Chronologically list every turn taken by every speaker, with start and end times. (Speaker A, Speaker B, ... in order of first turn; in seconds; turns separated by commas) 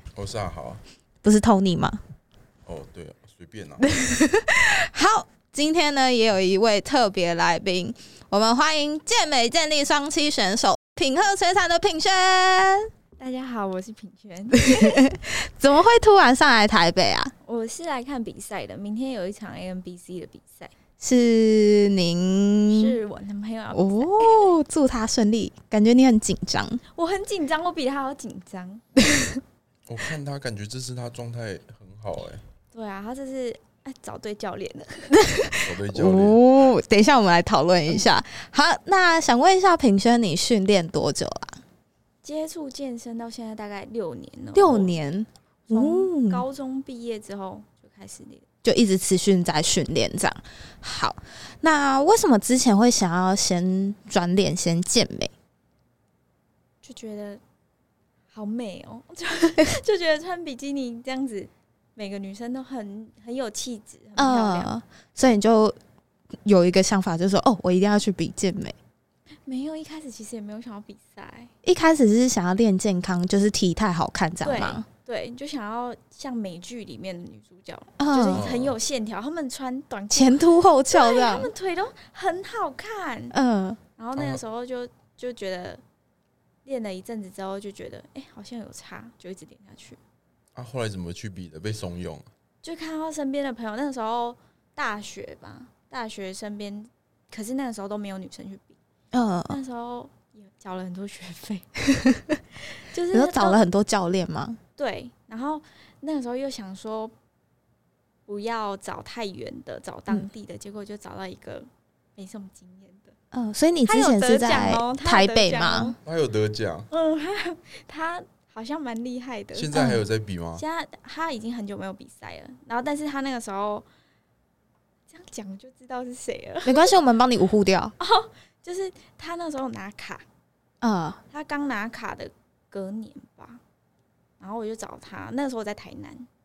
Speaker A: 0.1-0.8, Speaker B: 1.2-2.0, Speaker A: 2.6-3.8, Speaker B: 3.8-12.9, Speaker C: 13.2-15.1, Speaker B: 14.5-17.3, Speaker C: 17.4-20.7, Speaker B: 21.0-22.9, Speaker C: 22.7-24.5, Speaker B: 23.7-26.8, Speaker C: 26.9-28.9, Speaker B: 29.0-29.3, Speaker A: 29.9-32.4, Speaker C: 32.7-35.1, Speaker B: 35.1-41.6, Speaker A: 35.6-36.5, Speaker C: 42.2-45.0, Speaker B: 44.5-46.4, Speaker C: 45.7-48.4, Speaker B: 48.6-55.3, Speaker C: 56.8-57.4, Speaker C: 58.3-64.7, Speaker B: 64.2-65.8, Speaker B: 66.4-68.8, Speaker C: 69.5-71.5, Speaker B: 71.6-74.8, Speaker C: 74.4-83.3, Speaker B: 78.0-78.5, Speaker A: 78.3-78.8, Speaker B: 80.1-81.5, Speaker B: 83.3-83.8, Speaker C: 84.0-85.8, Speaker A: 84.2-84.4, Speaker C: 86.7-90.0, Speaker A: 90.6-92.3, Speaker C: 92.6-98.8, Speaker B: 99.1-99.6, Speaker C: 99.5-101.7, Speaker B: 102.0-102.4, Speaker C: 102.9-103.6, Speaker B: 103.1-104.6, Speaker C: 104.8-107.1, Speaker C: 108.3-113.1, Speaker B: 113.3-115.9, Speaker C: 113.8-116.0, Speaker A: 116.0-116.9, Speaker C: 116.9-119.8, Speaker A: 119.5-120.6, Speaker B: 119.7-120.0, Speaker C: 120.5-123.8, Speaker C: 125.1-126.9, Speaker B: 126.6-127.9, Speaker C: 128.0-130.2, Speaker B: 130.8-131.2, Speaker C: 131.3-133.6, Speaker C: 134.4-136.3